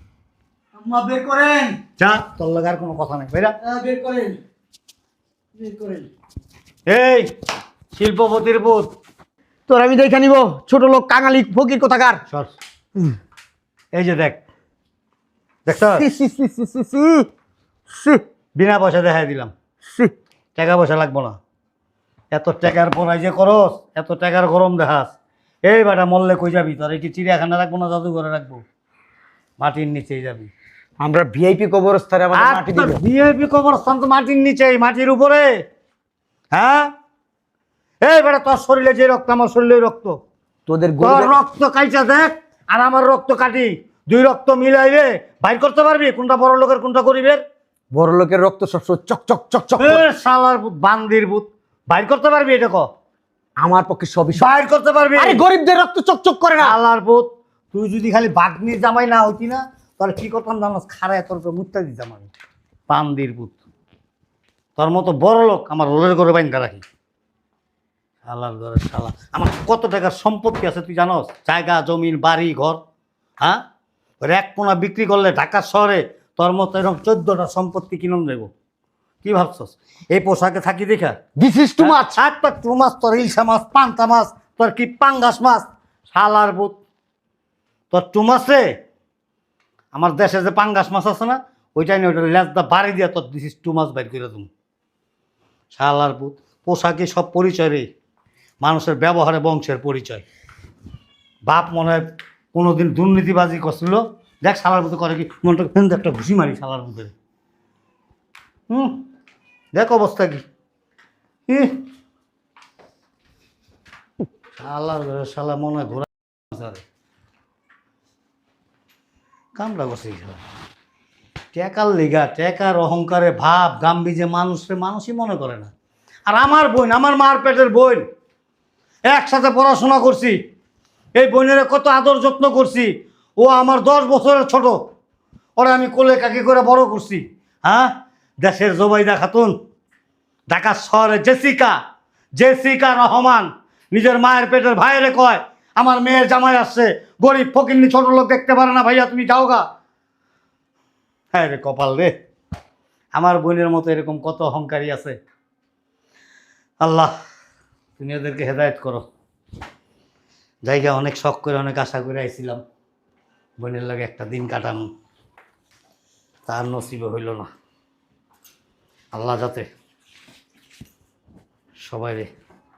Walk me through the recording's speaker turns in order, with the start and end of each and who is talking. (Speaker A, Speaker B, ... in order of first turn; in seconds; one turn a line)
Speaker A: 0.8-1.8
Speaker B: 2.0-3.5
Speaker A: 3.6-4.3
Speaker A: 5.6-6.1
Speaker B: 6.9-7.3
Speaker B: 7.9-8.9
Speaker A: 9.7-12.2
Speaker B: 13.9-14.4
Speaker B: 15.7-16.0
Speaker A: 15.9-17.3
Speaker A: 17.9-18.2
Speaker B: 18.5-19.5
Speaker A: 19.9-20.1
Speaker B: 20.6-21.4
Speaker B: 22.3-25.1
Speaker B: 25.6-28.6
Speaker B: 29.6-30.5
Speaker A: 31.0-33.0
Speaker B: 32.3-35.5
Speaker B: 36.5-36.9
Speaker B: 38.0-40.2
Speaker A: 40.7-41.3
Speaker B: 41.0-47.4
Speaker A: 47.9-50.0
Speaker B: 49.8-52.9
Speaker A: 53.6-54.5
Speaker B: 54.4-55.4
Speaker A: 55.2-56.8
Speaker B: 56.6-62.3
Speaker B: 62.9-63.6
Speaker B: 64.8-66.8
Speaker B: 68.2-72.8
Speaker B: 74.2-78.5
Speaker B: 79.2-81.2
Speaker A: 81.4-82.2
Speaker B: 81.8-86.8
Speaker B: 87.9-88.7
Speaker B: 89.9-94.5
Speaker B: 95.7-97.8
Speaker B: 98.6-100.2
Speaker B: 101.5-107.1
Speaker B: 108.7-108.9
Speaker B: 109.7-110.4
Speaker B: 114.6-116.8
Speaker B: 119.6-120.4
Speaker B: 121.5-125.7
Speaker B: 126.3-128.0
Speaker B: 129.1-130.4
Speaker B: 131.2-134.8
Speaker B: 135.6-139.5
Speaker B: 140.5-141.8
Speaker B: 142.3-149.6
Speaker B: 151.3-152.1
Speaker B: 153.1-155.2
Speaker B: 156.8-157.1
Speaker B: 158.0-159.0
Speaker B: 160.7-162.6
Speaker B: 163.6-164.8
Speaker B: 166.5-167.5
Speaker B: 169.1-169.7
Speaker B: 171.8-172.3